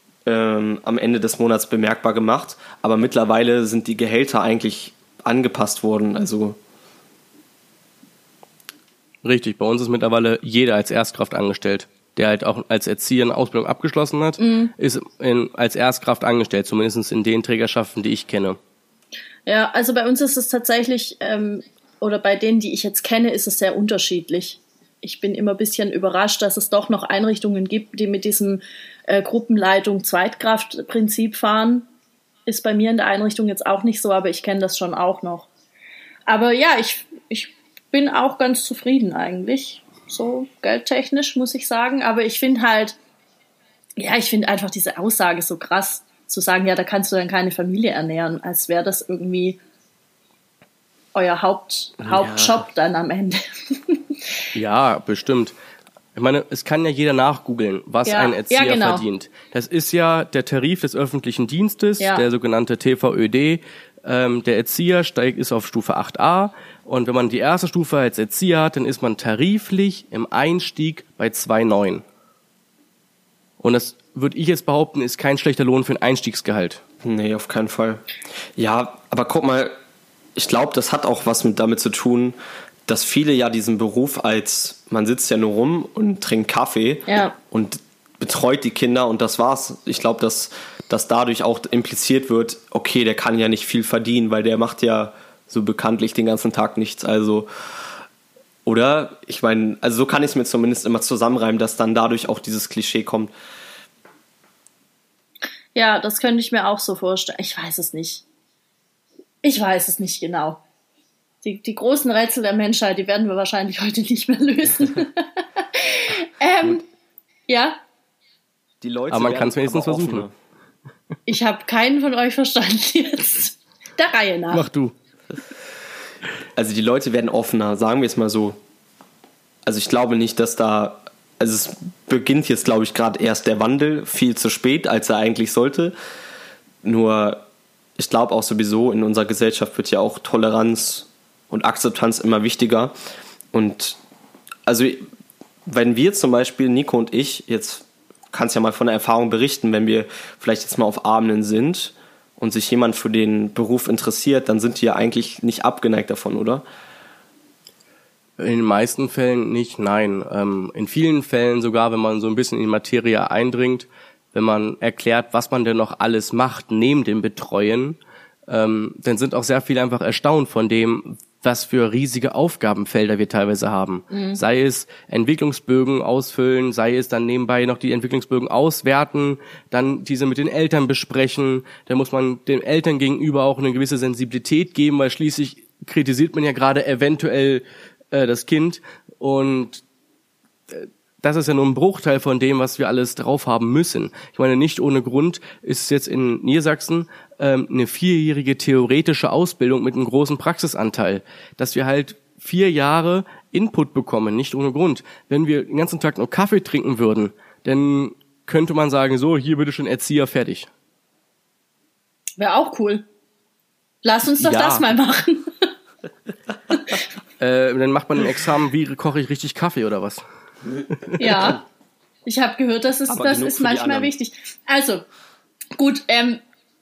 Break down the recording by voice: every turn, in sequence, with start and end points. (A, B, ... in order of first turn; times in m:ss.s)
0:00.2-0:06.6 A
0:09.2-0:18.6 B
0:14.4-0:14.7 C
0:19.4-0:31.9 C
0:32.5-0:35.5 C
0:36.3-0:43.0 C
0:44.0-0:49.6 C
0:51.1-0:54.2 C
0:52.0-0:52.6 A
0:54.5-0:55.5 B
0:56.1-1:12.0 B
0:58.0-0:59.0 C
1:13.6-1:16.8 B
1:17.0-1:18.0 A
1:18.6-1:19.7 A
1:20.4-1:22.3 A
1:22.9-1:37.5 A
1:27.1-1:27.3 C
1:38.6-1:43.3 A
1:45.7-1:48.2 C
1:49.4-1:50.6 C
1:51.4-1:56.8 C
1:57.5-1:57.8 C
1:58.8-2:00.3 A
1:59.1-2:00.2 B
2:01.3-2:04.6 C
2:04.5-2:04.9 B
2:06.5-2:08.6 A
2:09.6-2:15.9 A
2:16.8-2:17.4 A
2:18.0-2:22.9 A
2:23.5-2:24.0 A
2:24.7-2:25.0 A
2:25.6-2:36.6 A
2:38.4-2:48.0 B
2:48.5-3:09.8 B
2:54.1-2:54.4 C
3:10.7-3:30.7 B
3:32.4-3:33.0 C
3:34.0-3:35.7 C
3:34.4-3:34.9 B
3:37.4-3:40.2 B
3:40.9-3:41.5 B
3:41.2-3:41.6 C
3:42.2-3:45.0 C
3:43.1-3:44.1 A
3:45.8-3:46.4 C